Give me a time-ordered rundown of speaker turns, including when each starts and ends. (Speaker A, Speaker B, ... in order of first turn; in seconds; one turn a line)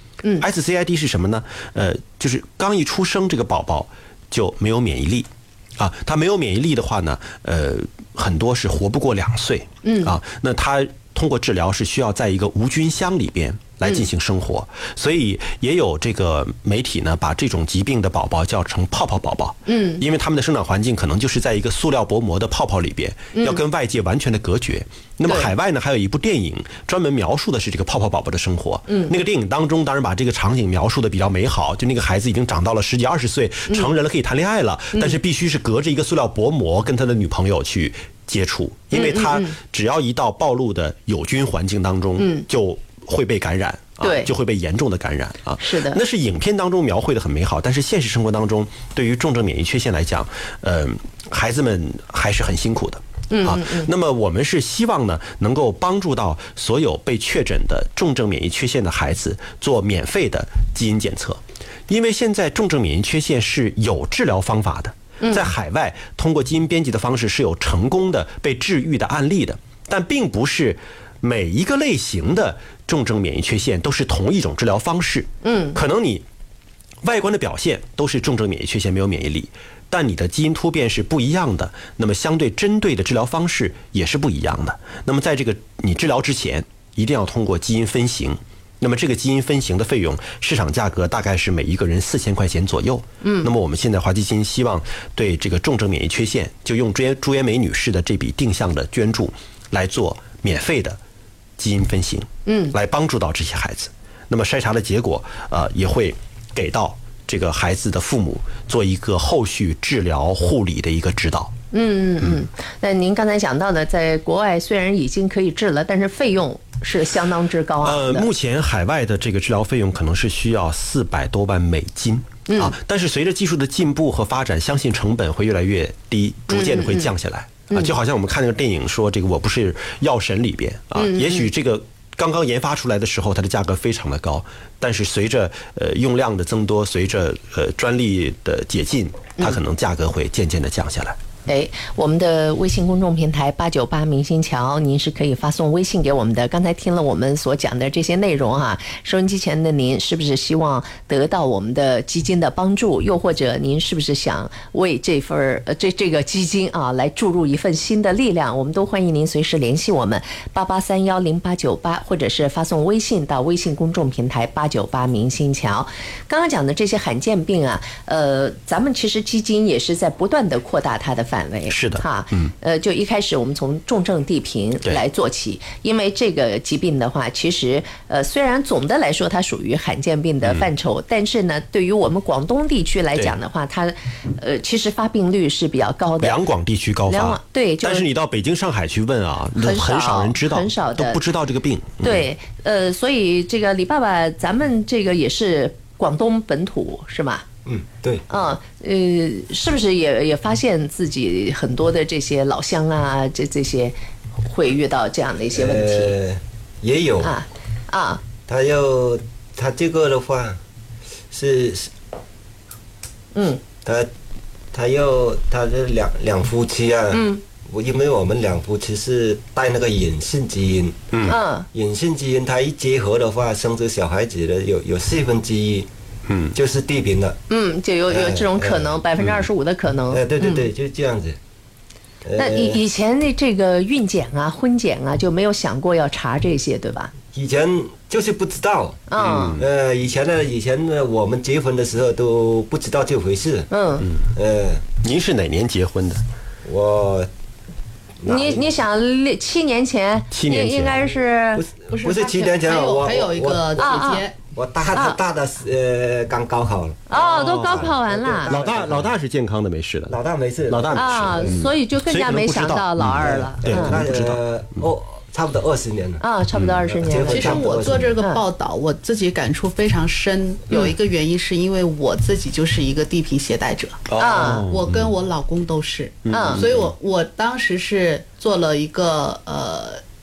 Speaker A: 0.4-76.2
Speaker B: 9.8-10.1
Speaker B: 19.6-20.0
Speaker B: 23.3-23.6
Speaker B: 25.3-25.5
Speaker B: 38.9-39.5
Speaker B: 42.2-42.4
Speaker B: 44.0-44.3
Speaker B: 45.6-46.0
Speaker B: 53.3-53.9
Speaker B: 65.2-65.5
Speaker B: 75.4-75.8
Speaker A: 77.0-101.0
Speaker B: 93.2-93.5
Speaker A: 101.6-111.5
Speaker B: 102.5-102.7
Speaker B: 111.7-118.3
Speaker A: 117.8-141.2
Speaker B: 122.5-122.7
Speaker B: 126.5-127.1
Speaker B: 130.9-131.5
Speaker B: 141.4-186.4
Speaker A: 171.7-172.5
Speaker A: 180.4-180.7
Speaker A: 186.2-192.3
Speaker B: 187.1-188.1
Speaker B: 189.6-191.2
Speaker B: 192.0-197.4
Speaker C: 197.6-198.2
Speaker B: 198.3-206.1
Speaker C: 205.5-207.3
Speaker B: 207.2-208.2
Speaker C: 208.4-210.6
Speaker C: 211.3-211.9
Speaker B: 213.3-213.6
Speaker C: 213.8-214.1
Speaker C: 214.7-225.9
Speaker B: 217.1-217.4
Speaker A: 221.1-221.4
Speaker B: 221.2-221.7
Speaker A: 226.3-226.5
Speaker C: 226.5-227.4
Speaker B: 227.5-230.7
Speaker C: 228.1-228.9
Speaker A: 229.2-229.4
Speaker C: 230.1-231.4
Speaker C: 232.2-232.8
Speaker B: 232.3-237.1
Speaker C: 237.3-243.7
Speaker B: 239.1-239.6
Speaker A: 239.2-239.7
Speaker B: 243.7-244.1
Speaker C: 244.3-244.8
Speaker A: 245.0-246.2
Speaker C: 246.6-247.3
Speaker C: 248.2-248.7
Speaker B: 248.3-251.6
Speaker A: 250.3-251.0
Speaker C: 251.5-253.8
Speaker D: 251.9-254.4
Speaker B: 253.8-254.2
Speaker C: 254.5-259.1
Speaker B: 257.1-258.6
Speaker A: 257.1-260.1
Speaker C: 260.1-261.5
Speaker A: 260.7-264.4
Speaker B: 260.9-264.0
Speaker C: 263.6-266.2
Speaker B: 266.2-268.4
Speaker A: 266.5-266.8
Speaker C: 266.9-268.1
Speaker D: 267.1-280.0
Speaker A: 274.1-275.1
Speaker B: 274.2-274.7
Speaker A: 276.2-276.9
Speaker B: 276.3-276.6